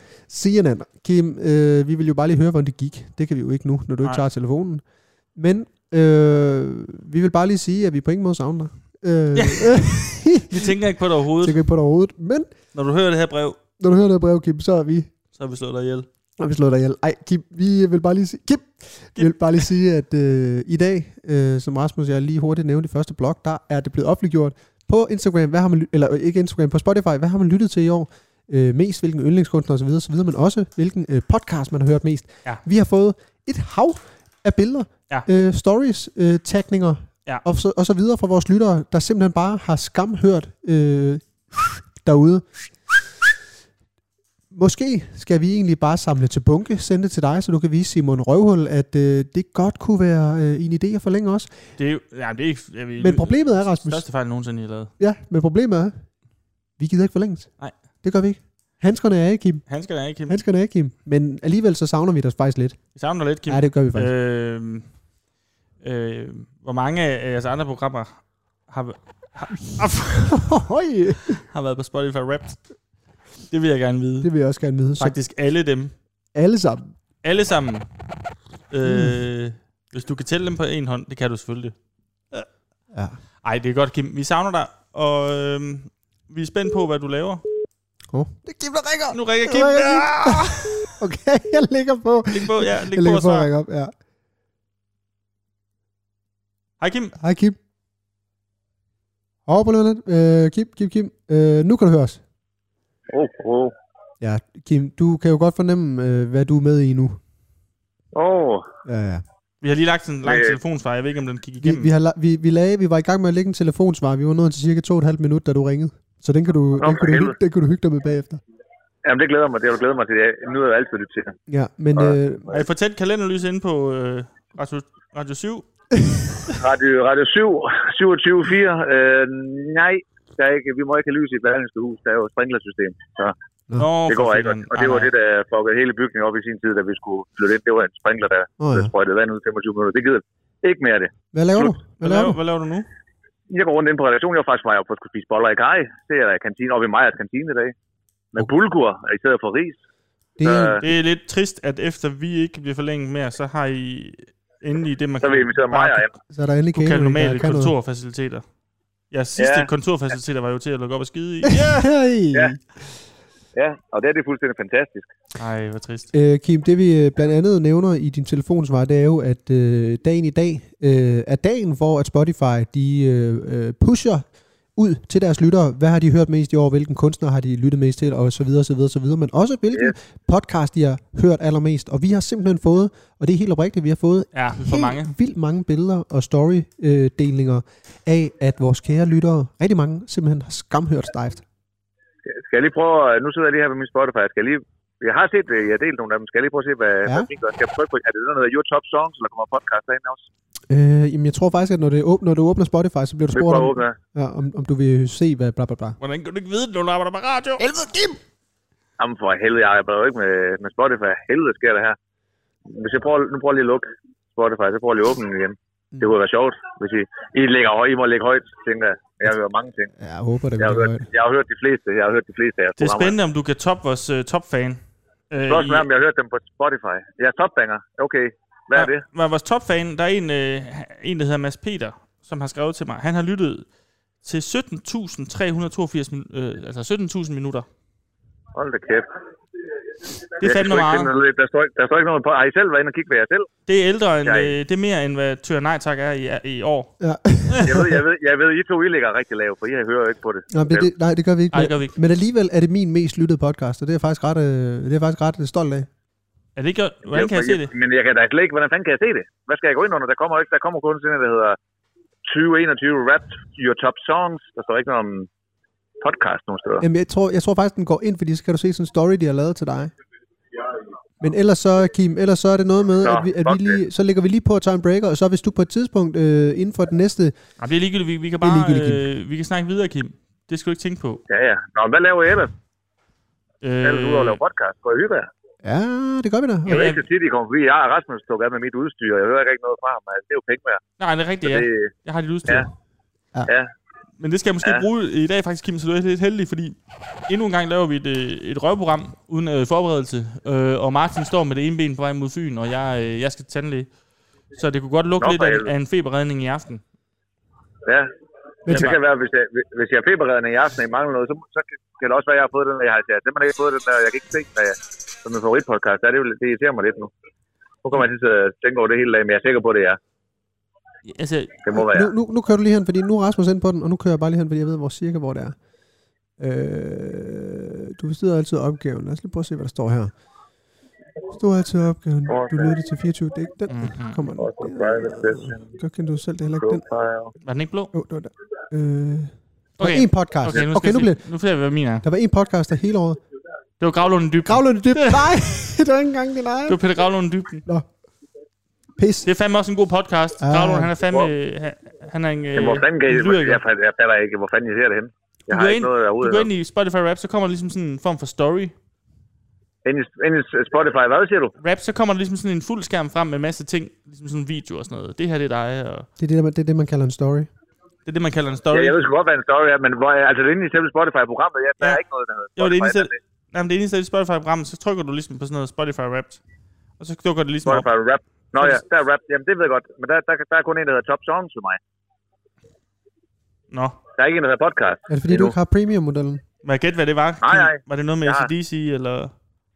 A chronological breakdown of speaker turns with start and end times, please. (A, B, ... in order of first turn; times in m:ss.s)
0:00.3-0:10.8 A
0:09.3-0:09.8 B
0:10.4-0:11.6 B
0:11.4-0:12.5 A
0:12.7-0:13.6 B
0:13.8-0:15.1 A
0:15.3-0:16.1 B
0:16.4-0:43.0 A
0:44.5-0:51.5 A
0:51.8-0:54.9 B
0:53.0-0:54.0 A
0:55.0-0:56.0 A
0:56.8-0:59.7 A
0:59.7-1:00.4 B
1:00.3-1:02.8 A
1:03.0-1:04.9 B
1:03.5-1:04.1 A
1:05.8-1:10.4 B
1:10.3-1:11.4 A
1:11.4-1:12.6 B
1:13.5-1:14.3 B
1:14.2-1:15.2 A
1:15.0-1:16.0 B
1:16.3-1:17.0 A
1:17.2-1:17.9 B
1:18.7-1:21.8 B
1:18.8-1:19.2 A
1:22.9-1:23.2 A
1:23.4-1:27.4 B
1:28.1-1:33.9 A
1:29.1-1:30.9 B
1:32.3-1:33.5 B
1:36.8-1:37.1 B
1:37.2-1:37.6 A
1:39.5-1:42.2 A
1:43.1-1:43.7 C
1:44.2-1:47.2 A
1:48.2-1:48.7 C
1:48.8-1:49.2 A
1:49.6-1:51.9 B
1:50.2-1:50.6 C
1:51.6-1:58.4 A
1:56.8-1:57.4 C
1:59.0-2:01.4 C
2:01.5-2:02.5 A
2:02.0-2:02.6 C
2:02.5-2:05.7 B
2:06.5-2:13.4 C
2:13.8-2:15.1 B
2:14.1-2:21.1 C
2:18.6-2:18.9 A
2:21.3-2:22.4 A
2:21.5-2:22.9 B
2:23.5-2:27.7 C
2:28.3-2:29.8 C
2:30.4-2:30.8 A
2:30.4-2:30.8 C
2:30.8-2:36.0 B
2:35.2-2:36.1 C
2:36.3-2:37.7 A
2:36.7-2:38.4 B
2:39.1-2:41.8 B
2:39.4-2:39.7 C
2:41.4-2:42.6 A
2:43.6-2:45.1 C
2:45.4-2:46.1 B
2:46.1-3:11.4 A
3:04.3-3:05.1 B
3:12.3-3:20.3 C
3:20.7-3:26.0 A
3:23.3-3:24.0 C
3:26.0-3:27.7 B
3:27.6-3:28.2 A
3:29.0-3:32.0 C
3:32.7-3:39.9 C
3:40.0-3:41.1 A
3:40.6-3:43.2 C
3:42.8-3:45.9 B
3:45.5-3:49.0 C
3:48.7-3:53.7 B
3:54.2-3:57.7 B
3:58.6-3:59.1 C
4:00.4-4:03.5 C
4:00.4-4:01.1 B
4:03.7-4:07.0 B
4:04.2-4:04.5 C
4:07.0-4:08.0 A
4:07.6-4:10.9 C
4:10.5-4:15.9 A
4:11.5-4:11.9 B
4:16.6-4:17.7 B
4:17.1-4:21.6 C
4:22.3-4:25.3 C
4:26.0-4:26.8 C
4:26.8-4:29.9 A
4:31.2-4:37.4 A
4:33.0-4:33.8 C
4:37.6-4:41.2 B
4:38.4-4:39.0 A
4:41.3-4:42.5 C
4:43.6-4:44.4 B
4:43.8-4:45.3 C
4:45.6-4:46.8 A
4:46.7-4:47.0 B
4:46.7-4:50.8 C
4:51.0-4:52.7 B
4:51.4-4:51.9 C
4:54.2-5:03.9 B
5:04.5-5:06.8 B
5:05.2-5:05.7 C
5:08.7-5:17.1 C
5:08.7-5:09.0 B
5:17.8-5:20.0 C
5:21.0-5:21.6 B
5:21.6-5:22.1 C
5:21.7-5:25.6 A
5:26.4-5:30.1 A
5:31.3-5:36.8 A
5:32.3-5:32.8 C
5:33.7-5:34.2 B
5:34.4-5:35.7 C
5:36.6-5:37.3 C
5:37.4-5:37.9 B
5:37.9-5:41.2 A
5:39.8-5:42.0 B
5:42.0-5:43.2 A
5:43.8-5:45.3 B
5:44.4-5:46.8 A
5:46.7-5:47.7 B
5:49.0-5:49.3 A
5:49.2-5:53.6 B
5:50.4-5:50.9 A
5:52.6-5:56.5 C
5:55.5-5:58.7 B
5:59.8-6:01.5 C
6:01.6-6:06.1 B
6:06.2-6:07.5 A
6:08.1-6:09.0 B
6:08.7-6:13.2 C
6:12.6-6:16.4 B
6:17.0-6:17.9 B
6:17.7-6:21.8 C
6:23.7-6:24.0 B
6:24.2-6:25.5 C
6:25.1-6:26.4 A
6:26.6-6:29.3 B
6:27.4-6:28.5 C